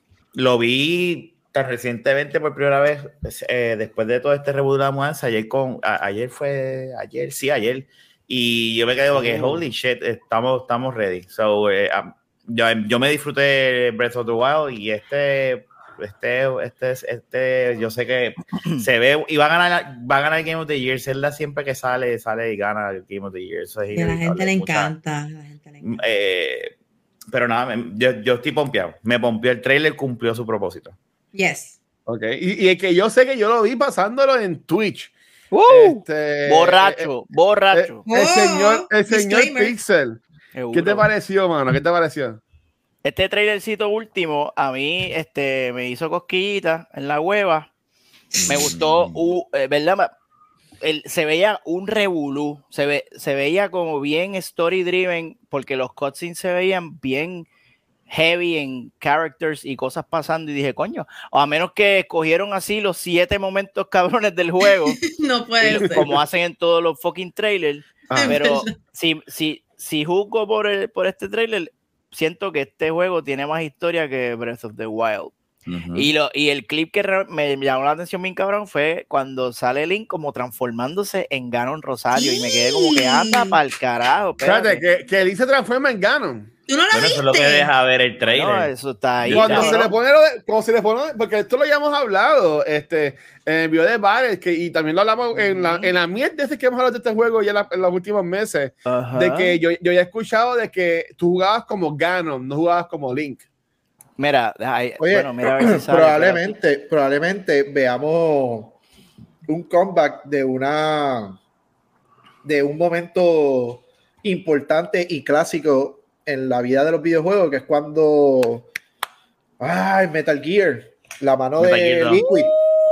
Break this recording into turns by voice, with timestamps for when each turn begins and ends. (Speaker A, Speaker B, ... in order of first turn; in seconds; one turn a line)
Speaker A: 0.3-24.9
Speaker B: 9.2-9.6
Speaker C: 23.9-25.9
Speaker A: 25.8-26.8
Speaker A: 27.3-30.9
Speaker C: 31.3-31.8
Speaker B: 32.1-35.1
Speaker D: 35.5-38.0
Speaker B: 35.7-37.1
Speaker B: 37.7-40.2
Speaker C: 38.1-39.8
Speaker D: 40.5-41.1
Speaker B: 40.7-42.4
Speaker D: 43.0-47.7
Speaker A: 48.4-49.3
Speaker D: 48.5-50.1
Speaker D: 50.8-57.5
Speaker D: 58.1-65.0
Speaker C: 64.7-66.1
Speaker D: 65.6-75.3
Speaker B: 68.1-68.4
Speaker C: 68.1-68.7
Speaker A: 75.7-76.1
Speaker D: 75.9-84.8
Speaker C: 82.1-83.6
Speaker B: 84.4-86.5
Speaker C: 86.7-87.7
Speaker A: 86.9-89.8
Speaker D: 88.3-89.9
Speaker B: 89.3-103.4
Speaker D: 95.3-95.9
Speaker D: 98.8-99.6
Speaker D: 104.2-106.5
Speaker E: 105.0-108.8
Speaker E: 109.5-111.4
Speaker E: 112.4-118.7
Speaker E: 119.6-122.5
Speaker A: 121.6-122.3
Speaker D: 122.3-122.8